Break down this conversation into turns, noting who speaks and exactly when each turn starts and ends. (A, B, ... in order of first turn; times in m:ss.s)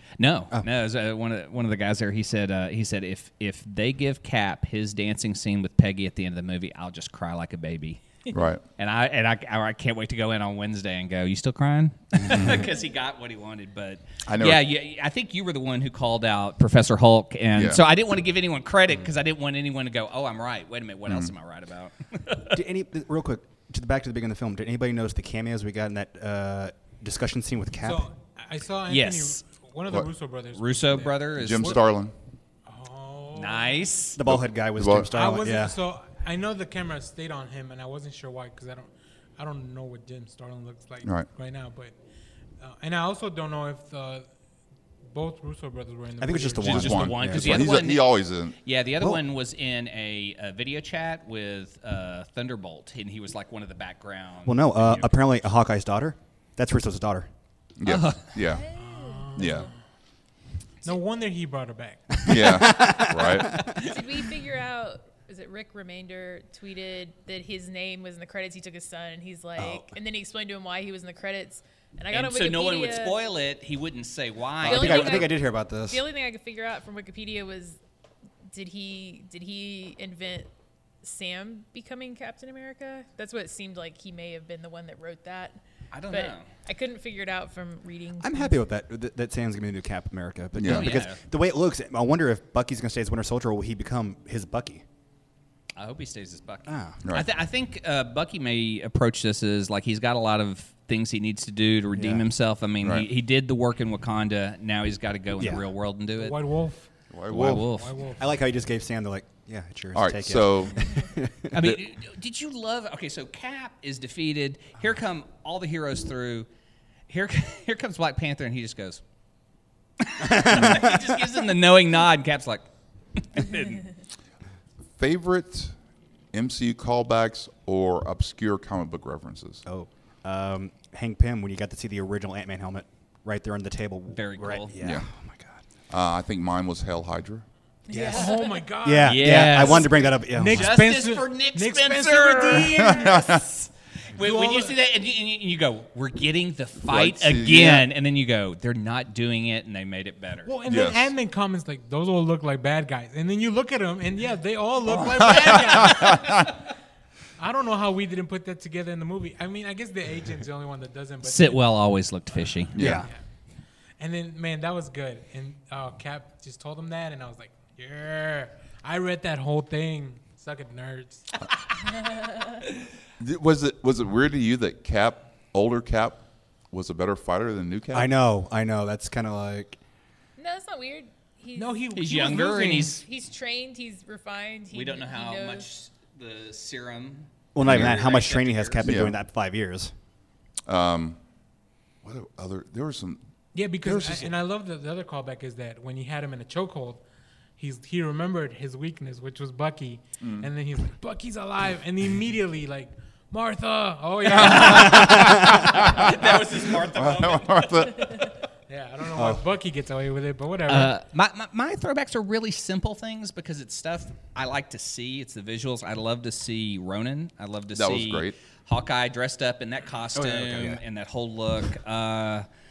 0:00.2-0:22.6 A
0:08.3-0:08.6 B
0:12.3-0:12.6 B
0:14.3-0:14.6 B
0:17.5-0:17.8 B
0:22.5-0:28.0 C
0:27.8-0:31.7 D
0:28.9-0:29.4 A
0:30.5-0:31.8 A
0:31.3-0:32.1 B
0:32.6-0:33.8 D
0:33.3-0:34.2 A
0:34.1-0:35.8 C
0:34.2-0:35.1 B
0:35.1-0:42.0 D
0:41.0-0:41.3 B
0:42.6-0:44.3 D
0:45.1-0:47.0 D
0:46.2-0:47.8 C
0:46.6-0:55.2 A
0:46.7-0:48.6 B
0:54.4-0:57.3 C
0:57.8-0:58.7 B
0:57.8-0:58.4 A
0:58.5-0:59.6 E
0:58.7-0:59.7 D
0:59.3-0:59.7 B
1:00.8-1:02.4 D
1:02.2-1:03.7 C
1:02.2-1:03.6 B
1:03.6-1:03.9 A
1:03.8-1:13.3 E
1:09.6-1:09.9 C
1:12.1-1:15.3 A
1:14.6-1:16.0 C
1:14.6-1:17.8 E
1:18.5-1:25.6 E
1:25.9-1:26.5 A
1:26.1-1:28.6 E
1:28.2-1:34.8 C
1:30.6-1:31.0 B
1:30.6-1:31.2 A
1:35.8-1:46.4 A
1:36.7-1:37.0 C
1:41.9-1:42.2 C
1:42.8-1:43.1 B
1:45.4-1:45.6 C
1:46.2-1:46.9 D
1:47.1-1:47.6 B
1:47.3-1:48.0 A
1:47.3-1:47.6 C
1:47.7-1:48.3 D
1:48.2-1:51.6 C
1:49.9-1:50.9 B
1:51.5-1:56.5 A
1:57.1-1:59.0 A
2:00.0-2:03.9 A
2:00.2-2:01.1 C
2:05.0-2:05.8 B
2:06.3-2:09.6 B
2:09.6-2:15.6 C
2:14.1-2:14.7 A
2:15.9-2:17.4 B
2:17.9-2:18.6 E
2:17.9-2:20.8 C
2:18.0-2:23.4 D
2:19.0-2:23.4 A
2:22.8-2:23.4 B
2:24.1-2:30.5 A
2:24.2-2:24.8 D
2:26.8-2:27.8 B
2:30.4-2:36.5 D
2:30.7-2:31.1 B
2:34.9-2:36.5 B
2:37.4-2:41.7 D
2:41.2-2:42.9 A
2:42.4-2:43.1 D
2:42.7-2:43.0 B
2:42.8-2:43.1 C
2:44.0-2:51.3 D
2:52.0-2:52.6 E
2:53.2-2:58.1 B
2:57.9-2:59.8 C
3:00.4-3:05.7 E
3:01.5-3:03.0 D
3:01.9-3:03.0 A
3:04.7-3:08.9 A
3:07.5-3:09.9 C
3:07.6-3:07.9 B
3:08.8-3:09.1 B
3:10.7-3:11.2 B
3:12.0-3:13.2 B
3:13.5-3:17.0 D
3:13.8-3:14.3 B
3:17.6-3:25.6 D
3:20.2-3:20.5 B
3:24.3-3:28.4 B
3:24.3-3:28.1 A
3:28.7-3:30.9 D
3:29.1-3:29.4 C
3:30.7-3:42.4 A
3:37.7-3:38.3 B
3:40.1-3:40.8 C